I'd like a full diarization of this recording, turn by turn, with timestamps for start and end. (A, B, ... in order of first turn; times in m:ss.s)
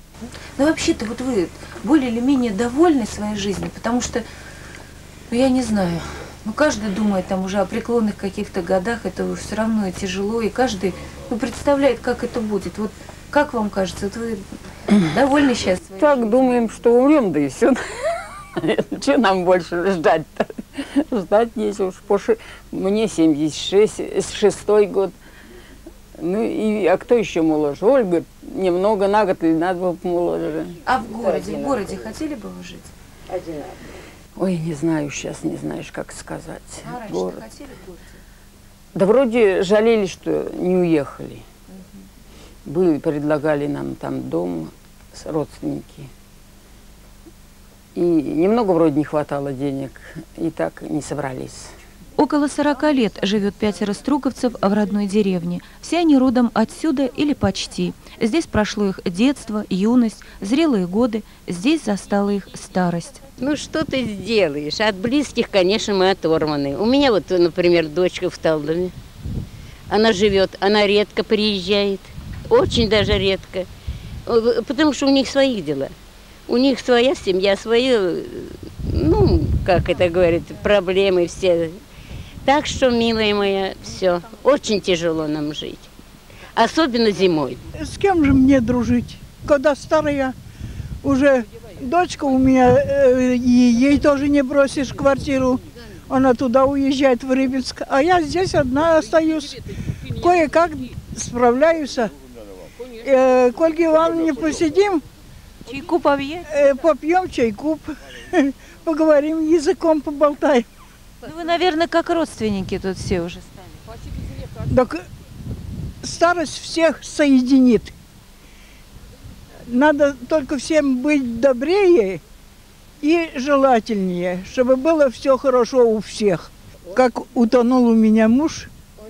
0:00.6-0:04.2 A
0:05.3-0:16.6 A
0:16.0-0:25.1 B
0:26.2-0:30.8 B
0:30.8-0:32.9 A
0:33.3-0:33.7 C
0:34.4-0:37.4 B
0:36.8-0:38.2 A
0:38.9-0:41.4 B
0:42.6-0:46.1 B
0:47.9-0:51.8 B
0:52.2-1:03.2 A
1:03.4-1:08.9 C
1:09.9-1:13.7 C
1:14.2-1:15.9 C
1:16.5-1:21.8 C
1:22.4-1:25.9 C
1:26.5-1:27.6 C
1:27.7-1:30.3 D
1:31.0-1:42.1 D
1:42.9-1:45.0 D
1:45.6-1:46.6 A
1:46.5-1:50.7 D
1:51.2-1:53.7 A
1:54.6-1:55.1 D
1:56.0-1:57.9 D
1:59.7-2:02.2 D
2:03.0-2:08.7 D